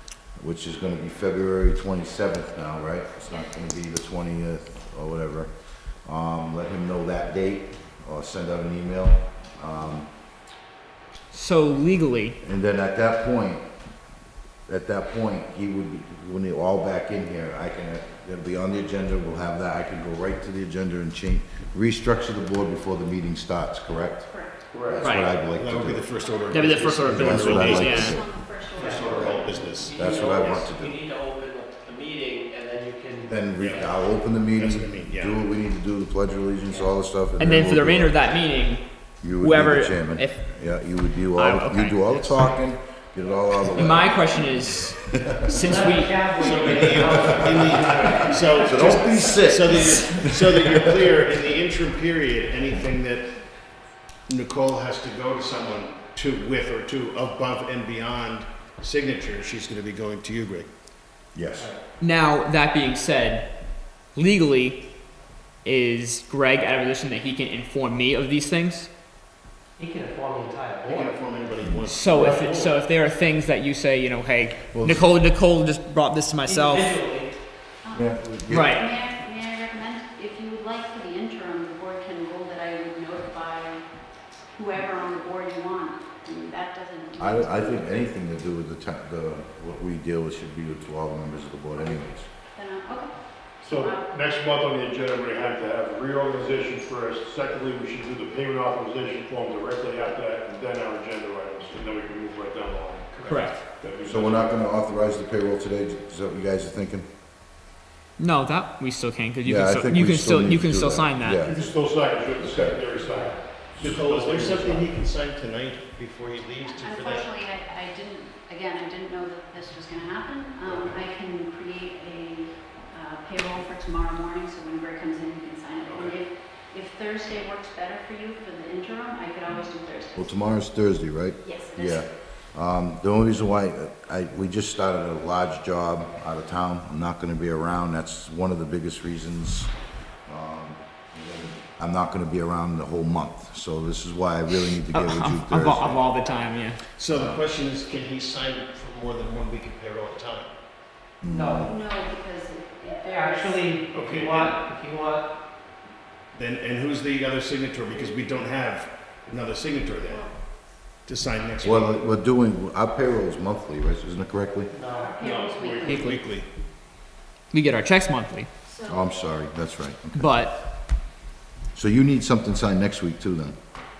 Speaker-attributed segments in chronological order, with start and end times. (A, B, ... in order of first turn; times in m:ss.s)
0:00.4-0:10.1 A
0:11.3-0:12.4 B
0:12.4-0:13.7 A
0:14.7-0:26.1 A
0:24.3-0:25.0 C
0:24.7-0:25.1 D
0:25.0-0:25.3 B
0:25.5-0:28.2 E
0:26.2-0:29.8 C
0:26.5-0:28.2 B
0:27.0-0:28.2 A
0:28.8-0:30.6 E
0:28.8-0:33.9 F
0:28.9-0:29.4 D
0:29.9-0:31.0 A
0:33.3-0:38.4 A
0:33.6-0:34.0 E
0:34.5-0:35.4 E
0:36.7-0:36.9 F
0:37.4-0:40.5 B
0:39.2-0:45.8 A
0:41.3-0:42.5 B
0:43.7-0:46.8 B
0:45.7-0:48.6 F
0:46.3-0:53.4 E
0:47.0-0:51.1 A
0:54.3-1:00.7 E
1:01.3-1:01.7 A
1:02.0-1:04.9 B
1:05.6-1:08.9 B
1:09.8-1:11.2 F
1:10.9-1:12.7 E
1:11.7-1:12.6 A
1:11.8-1:16.9 B
1:14.7-1:15.1 A
1:16.4-1:17.4 F
1:17.8-1:23.8 C
1:17.9-1:18.8 A
1:18.5-1:18.8 B
1:24.5-1:27.9 C
1:27.2-1:32.3 A
1:32.6-1:34.2 C
1:33.6-1:44.5 D
1:43.3-1:43.6 B
1:44.1-1:47.1 A
1:48.2-1:51.4 B
1:49.4-1:51.7 A
1:51.4-1:54.6 D
1:52.4-1:52.8 A
1:53.8-1:54.8 A
1:53.8-1:57.3 E
1:56.6-2:10.3 C
2:05.9-2:06.1 E
2:10.2-2:19.7 A
2:11.4-2:12.0 C
2:20.3-2:26.0 A
2:24.9-2:26.8 B
2:27.0-2:30.5 E
2:27.1-2:27.4 A
2:31.2-2:31.7 A
2:31.2-2:31.7 F
2:31.6-2:33.8 C
2:33.0-2:35.3 F
2:33.9-2:34.6 E
2:36.3-2:40.3 E
2:40.1-2:40.3 C
2:41.1-2:42.0 E
2:41.6-2:44.7 A
2:44.7-2:45.2 F
2:44.8-2:46.1 C
2:45.2-2:46.0 D
2:45.8-2:46.2 B
2:45.8-2:46.5 E
2:47.5-2:48.5 B
2:48.7-2:49.0 C
2:48.9-2:50.4 A
2:50.2-2:50.6 B
2:51.7-2:53.6 A